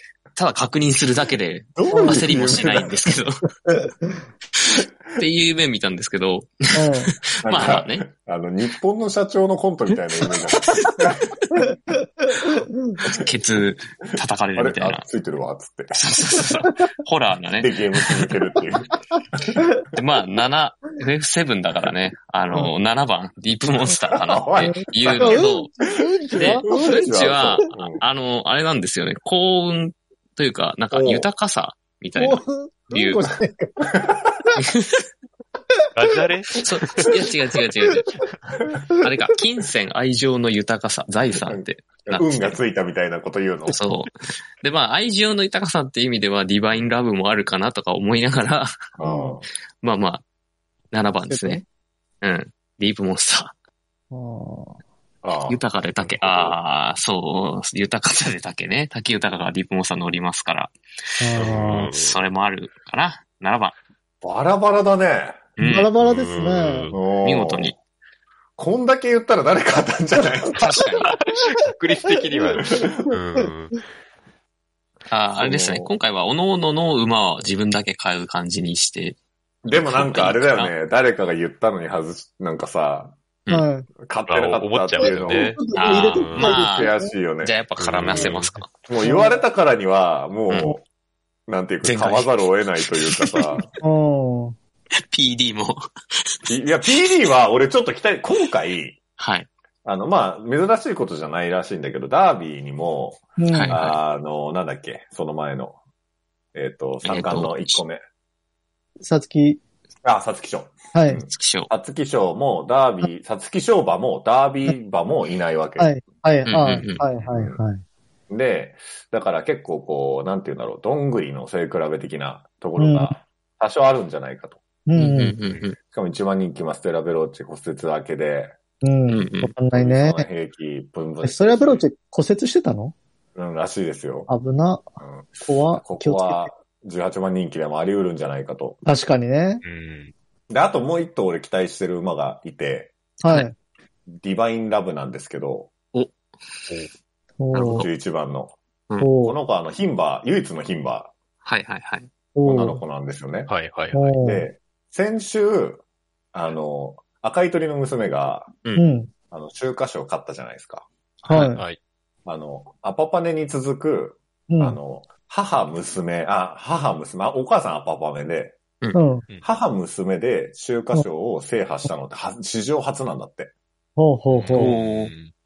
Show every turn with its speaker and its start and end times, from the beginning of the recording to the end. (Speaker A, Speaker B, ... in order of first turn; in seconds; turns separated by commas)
Speaker A: 0.4-3.4, Speaker B: 1.8-3.2, Speaker C: 1.9-2.2, Speaker A: 4.6-8.1, Speaker C: 6.7-7.1, Speaker B: 7.4-11.3, Speaker A: 10.2-11.1, Speaker C: 12.3-13.0, Speaker A: 13.1-15.0, Speaker B: 14.6-16.4, Speaker A: 15.9-18.4, Speaker B: 17.6-19.5, Speaker A: 19.9-25.7, Speaker B: 24.1-25.5, Speaker C: 24.6-27.1, Speaker B: 26.3-28.0, Speaker A: 26.4-33.3, Speaker B: 30.9-31.3, Speaker C: 32.2-33.8, Speaker B: 33.9-34.3, Speaker A: 34.6-35.0, Speaker D: 36.0-36.6, Speaker A: 36.6-38.1, Speaker A: 39.0-42.6, Speaker B: 41.5-43.8, Speaker A: 43.7-48.7, Speaker B: 49.0-49.5, Speaker C: 49.0-49.4, Speaker A: 49.8-50.2, Speaker A: 50.9-51.6, Speaker C: 51.3-51.6, Speaker A: 52.2-53.5, Speaker C: 54.1-54.8, Speaker B: 55.2-56.5, Speaker A: 55.5-63.8, Speaker C: 61.2-61.9, Speaker D: 61.4-62.2, Speaker B: 64.2-65.5, Speaker A: 65.6-65.9, Speaker C: 65.6-66.9, Speaker D: 66.0-67.0, Speaker B: 66.9-67.8, Speaker A: 67.2-67.8, Speaker B: 68.6-70.7, Speaker A: 70.6-71.2, Speaker D: 71.2-73.8, Speaker B: 72.6-73.0, Speaker A: 75.1-79.2, Speaker B: 75.3-75.9, Speaker B: 79.7-83.2, Speaker A: 79.7-80.7, Speaker C: 83.5-83.9, Speaker B: 84.0-85.6, Speaker D: 84.3-85.6, Speaker C: 85.0-87.2, Speaker A: 85.7-88.7, Speaker D: 86.2-86.5, Speaker B: 86.5-90.8, Speaker D: 87.8-88.6, Speaker C: 89.0-89.4, Speaker B: 91.5-93.7, Speaker A: 91.8-93.7, Speaker C: 93.8-94.6, Speaker A: 95.0-96.5, Speaker B: 96.5-99.0, Speaker A: 99.2-99.5, Speaker B: 99.8-105.8, Speaker C: 103.4-103.8, Speaker A: 103.5-104.0, Speaker B: 106.5-108.0, Speaker A: 107.0-107.8, Speaker C: 109.0-109.6, Speaker B: 110.0-115.9, Speaker C: 110.9-111.2, Speaker A: 111.3-111.7, Speaker C: 115.8-117.8, Speaker A: 116.5-117.0, Speaker B: 117.3-117.6, Speaker B: 118.3-124.6, Speaker C: 122.8-123.2, Speaker C: 124.9-125.4, Speaker A: 125.0-125.8, Speaker B: 125.9-128.6, Speaker C: 128.8-130.3, Speaker A: 129.1-129.5, Speaker B: 129.7-131.8, Speaker C: 131.2-132.9, Speaker B: 133.3-134.3, Speaker C: 134.3-134.9, Speaker B: 135.0-138.8, Speaker C: 135.4-136.5, Speaker C: 138.8-139.6, Speaker D: 139.6-140.1, Speaker B: 140.5-142.9, Speaker C: 143.2-143.6, Speaker B: 144.1-145.7, Speaker A: 145.9-146.7, Speaker C: 147.4-147.9, Speaker A: 147.5-147.9, Speaker B: 147.7-148.6, Speaker C: 149.0-149.4, Speaker B: 149.2-151.1, Speaker A: 151.4-152.1, Speaker C: 152.3-152.8, Speaker B: 152.4-153.5, Speaker D: 153.5-154.2, Speaker C: 153.9-154.5, Speaker B: 154.2-155.8, Speaker B: 156.3-158.6, Speaker C: 158.8-159.1, Speaker B: 159.3-160.9, Speaker A: 161.2-161.6, Speaker C: 161.3-161.6, Speaker B: 162.3-168.6, Speaker C: 164.5-164.8, Speaker C: 168.9-169.2, Speaker B: 169.4-173.5, Speaker C: 174.0-174.8, Speaker D: 174.3-175.3, Speaker A: 174.5-175.1